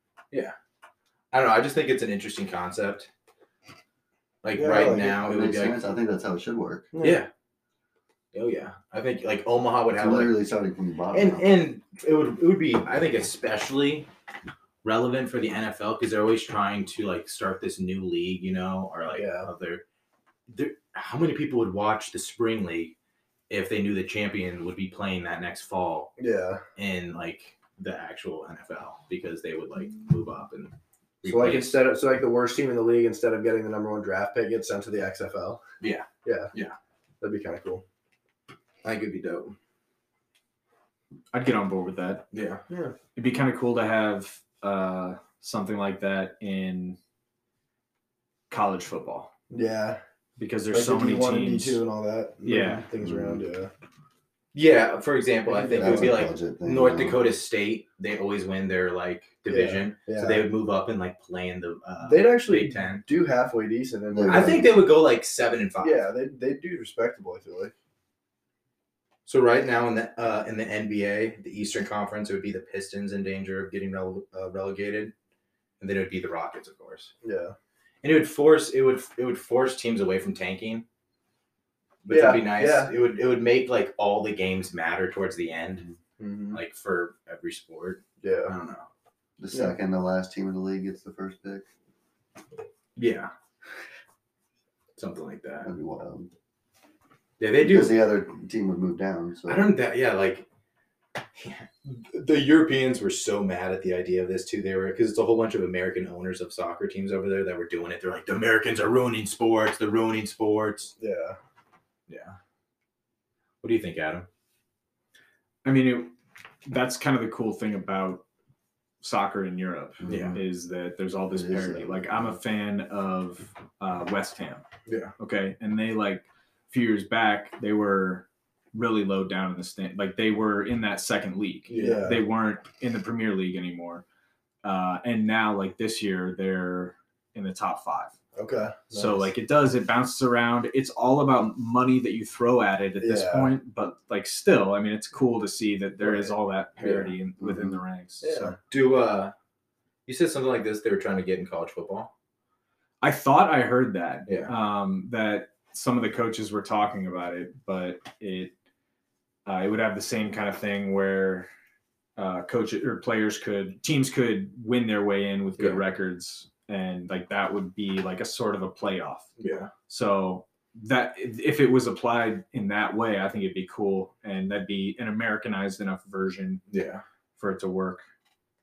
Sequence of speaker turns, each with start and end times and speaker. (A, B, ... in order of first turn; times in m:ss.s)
0:01.3-0:03.1 A
0:04.4-0:05.8 A
0:04.6-0:05.2 B
0:05.1-0:06.9 C
0:06.9-0:07.2 B
0:07.0-0:07.3 A
0:08.3-0:10.3 A
0:09.9-0:11.7 C
0:11.1-0:14.1 A
0:14.8-0:19.8 A
0:19.1-0:19.5 B
0:20.5-0:23.0 A
0:23.5-0:26.2 A
0:26.2-0:26.6 B
0:26.8-0:31.8 A
0:31.2-0:35.6 B
0:35.8-0:36.8 A
0:36.2-0:36.5 B
0:37.2-0:37.8 B
0:38.8-0:39.6 A
0:41.3-0:42.2 D
0:42.3-0:42.6 A
0:42.7-0:43.0 B
0:43.2-0:47.0 D
0:48.5-0:49.3 D
0:49.5-0:50.0 B
0:50.4-0:51.8 D
0:50.7-0:53.7 B
0:52.4-0:52.8 D
0:53.0-0:53.5 C
0:54.5-1:03.0 A
0:55.5-0:56.2 B
0:55.7-0:57.2 C
0:59.5-1:00.4 B
1:02.0-1:04.7 B
1:04.1-1:04.8 C
1:04.3-1:06.1 A
1:05.8-1:07.7 B
1:09.3-1:15.1 A
1:15.8-1:17.1 A
1:17.2-1:17.5 B
1:18.0-1:20.8 A
1:22.0-1:25.9 A
1:22.1-1:22.9 B
1:26.2-1:26.6 B
1:26.5-1:28.9 A
1:28.2-1:28.5 B
1:29.4-1:31.6 C
1:33.0-1:33.3 A
1:35.0-1:35.7 A
1:35.6-1:36.3 C
1:37.4-1:38.1 A
1:37.6-1:39.7 C
1:39.4-1:40.4 A
1:41.4-1:50.9 A
1:51.0-1:51.4 B
1:52.1-1:52.4 A
1:53.6-1:54.3 A
1:55.6-1:58.2 D
1:59.0-2:04.6 D
2:00.0-2:00.4 C
2:00.0-2:00.4 A
2:01.3-2:02.4 C
2:05.2-2:14.0 D
2:11.7-2:12.2 B
2:14.6-2:18.2 D
2:18.4-2:19.3 B
2:18.9-2:28.6 D
2:23.0-2:23.5 B
2:26.0-2:26.3 B
2:27.4-2:27.8 C
2:28.2-2:28.6 B
2:28.7-2:29.3 A
2:30.1-2:32.1 A
2:33.0-2:38.5 D
2:34.3-2:34.5 A
2:39.4-2:41.5 D
2:42.2-2:49.3 D
2:49.4-2:49.7 A
2:49.9-2:56.6 D
2:56.7-2:57.0 A
2:57.4-2:58.0 D